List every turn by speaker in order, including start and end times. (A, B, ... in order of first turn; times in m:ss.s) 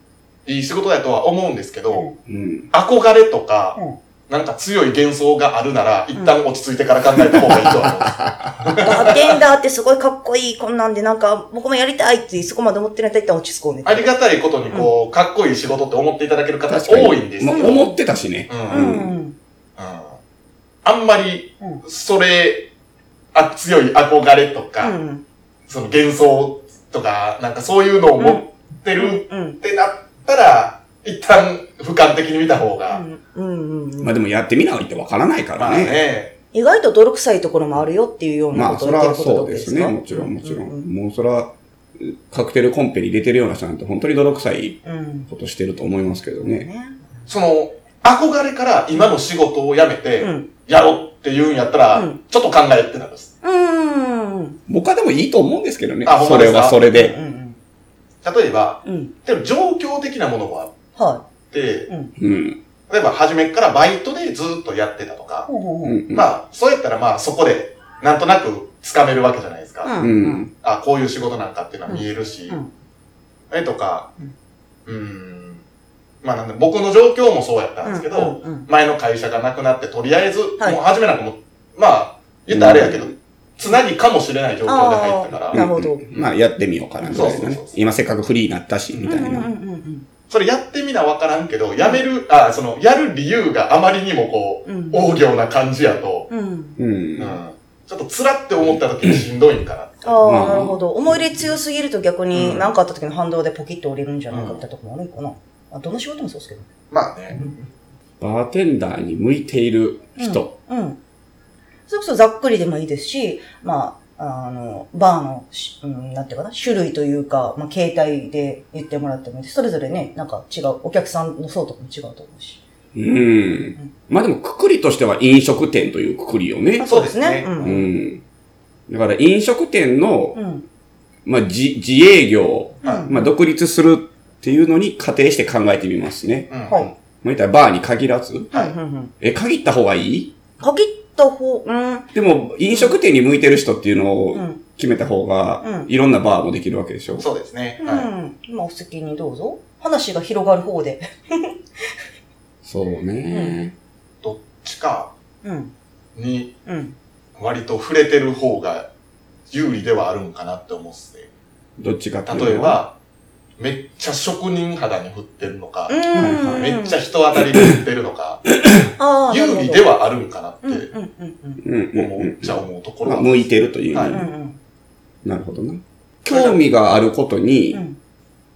0:00.5-0:02.1 A
0:02.3-0:02.7 B
0:02.7-0:09.1 A
0:07.4-0:08.8 B
0:08.8-0:14.1 C
0:13.8-0:17.8 A
0:16.7-0:19.1 B
0:17.5-0:18.0 C
0:18.5-0:18.9 A
0:18.7-0:19.4 C
0:19.8-0:20.2 A
0:20.8-0:22.7 A
0:23.3-0:25.0 A
0:24.8-0:25.2 C
0:25.7-0:33.0 A
0:28.2-0:28.4 C
0:29.0-0:29.6 C
0:32.9-0:34.2 C
0:34.0-0:36.0 B
0:35.6-0:36.4 A
0:36.5-0:40.9 C
0:38.5-0:46.7 B
0:44.8-0:45.3 C
0:46.4-0:47.0 C
0:47.3-0:53.3 A
0:50.2-0:50.5 C
0:51.9-0:52.2 C
0:53.4-0:54.6 C
0:54.7-0:57.2 B
0:56.0-0:56.8 A
0:56.9-0:57.6 C
0:58.2-1:00.7 A
0:58.8-0:59.1 C
1:01.0-1:01.2 C
1:01.5-1:01.9 A
1:01.9-1:02.1 C
1:02.2-1:02.6 B
1:02.9-1:05.5 A
1:05.5-1:06.0 C
1:05.8-1:06.3 B
1:06.1-1:09.9 A
1:09.8-1:10.4 C
1:10.0-1:10.5 B
1:10.6-1:12.6 A
1:11.9-1:12.7 C
1:13.5-1:14.1 A
1:14.9-1:15.6 A
1:16.2-1:25.6 A
1:17.8-1:18.7 C
1:22.5-1:23.1 B
1:24.7-1:26.0 C
1:25.5-1:29.5 B
1:27.0-1:27.8 A
1:28.9-1:29.3 A
1:29.1-1:30.1 C
1:30.3-1:36.3 A
1:34.7-1:35.1 C
1:36.3-1:36.8 C
1:36.8-1:37.4 B
1:37.2-1:40.1 A
1:40.0-1:46.7 C
1:40.2-1:40.8 B
1:42.3-1:42.7 A
1:44.3-1:44.6 A
1:46.9-1:47.5 A
1:48.2-1:50.6 B
1:50.2-1:51.0 C
1:51.9-2:02.6 C
2:03.0-2:06.9 B
2:06.8-2:07.8 C
2:06.8-2:07.6 A
2:07.6-2:08.2 B
2:08.9-2:10.4 B
2:10.4-2:10.7 C
2:11.2-2:16.5 B
2:12.8-2:13.3 C
2:16.5-2:16.9 A
2:17.2-2:18.5 B
2:18.5-2:19.1 C
2:19.2-2:20.3 B
2:20.6-2:22.1 C
2:22.2-2:27.3 B
2:24.3-2:24.6 C
2:25.6-2:25.9 C
2:27.2-2:28.1 A
2:27.8-2:31.6 C
2:32.6-2:33.8 B
2:33.3-2:33.6 C
2:34.2-2:35.1 A
2:35.4-2:35.7 C
2:36.2-2:36.6 A
2:36.7-2:37.0 C
2:37.4-2:38.9 A
2:39.5-2:41.3 A
2:41.8-2:42.8 B
2:42.3-2:43.0 A
2:43.6-2:48.6 A
2:45.9-2:47.0 C
2:46.2-2:46.7 B
2:49.0-2:49.9 C
2:49.3-2:50.9 A
2:50.6-2:51.6 C
2:51.6-2:54.3 B
2:51.9-2:54.2 A
2:54.1-2:54.6 C
2:55.2-2:57.8 B
2:56.3-2:56.6 A
2:57.7-2:58.0 C